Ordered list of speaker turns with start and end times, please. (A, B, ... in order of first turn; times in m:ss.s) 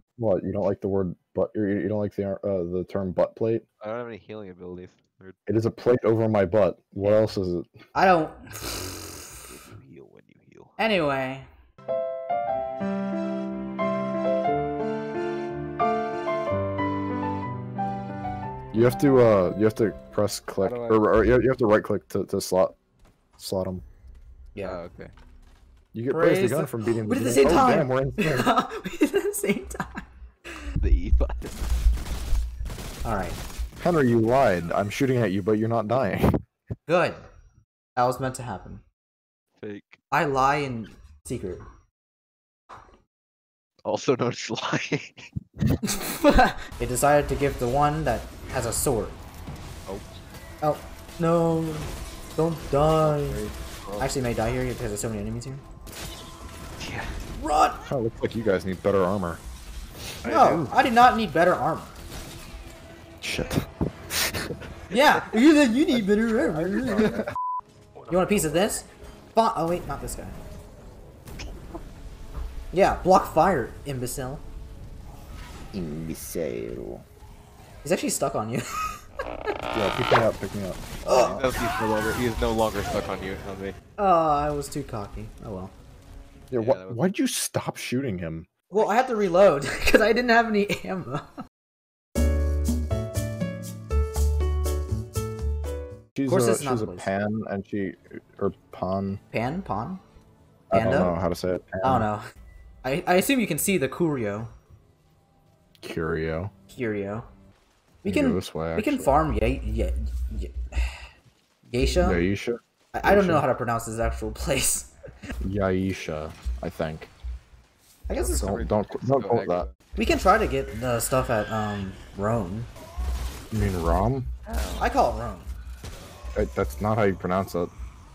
0:00.2-0:03.6 A
0:03.8-0:05.4 B
0:05.5-0:07.7 A
0:08.0-0:09.3 C
0:09.5-0:10.7 B
0:10.8-0:11.5 C
0:18.7-0:22.8 A
0:20.6-0:21.0 B
0:23.4-0:23.8 A
0:24.6-0:25.1 B
0:25.9-0:28.5 A
0:26.1-0:30.1 C
0:30.8-0:31.6 B
0:33.0-0:33.4 C
0:33.8-0:36.3 A
0:36.9-0:37.2 C
0:38.0-0:38.8 C
0:39.6-0:40.0 B
0:40.1-0:41.6 C
0:43.8-0:45.3 B
0:45.8-0:49.2 C
0:50.6-0:53.4 C
0:53.0-0:54.1 B
0:54.0-0:55.6 C
0:56.8-0:57.1 B
0:57.4-0:57.9 C
0:57.9-0:59.4 A
1:00.2-1:00.7 B
1:00.2-1:02.0 C
1:03.2-1:04.5 A
1:04.9-1:07.2 C
1:06.4-1:07.3 B
1:08.0-1:08.7 B
1:08.1-1:10.4 C
1:12.7-1:14.4 C
1:15.8-1:16.8 B
1:17.8-1:18.9 C
1:19.7-1:21.3 A
1:21.0-1:21.4 C
1:21.1-1:23.8 B
1:24.0-1:25.7 C
1:26.5-1:28.5 A
1:26.6-1:27.1 B
1:28.7-1:31.3 C
1:36.2-1:39.2 A
1:36.3-1:37.1 C
1:39.3-1:40.0 C
1:40.7-1:42.1 A
1:40.7-1:41.1 C
1:41.8-1:42.2 C
1:42.8-1:44.5 C
1:45.8-1:46.5 A
1:46.7-1:47.3 C
1:48.0-1:51.0 C
1:48.0-1:49.2 A
1:51.7-1:52.2 C
1:52.0-1:53.5 A
1:52.9-1:54.9 C
1:55.4-1:57.1 A
1:58.1-1:58.7 C
1:58.2-1:59.9 B
1:58.5-1:59.7 A
2:00.0-2:02.7 C
2:03.5-2:04.3 A
2:04.4-2:04.9 B
2:04.8-2:05.5 C
2:06.4-2:07.7 A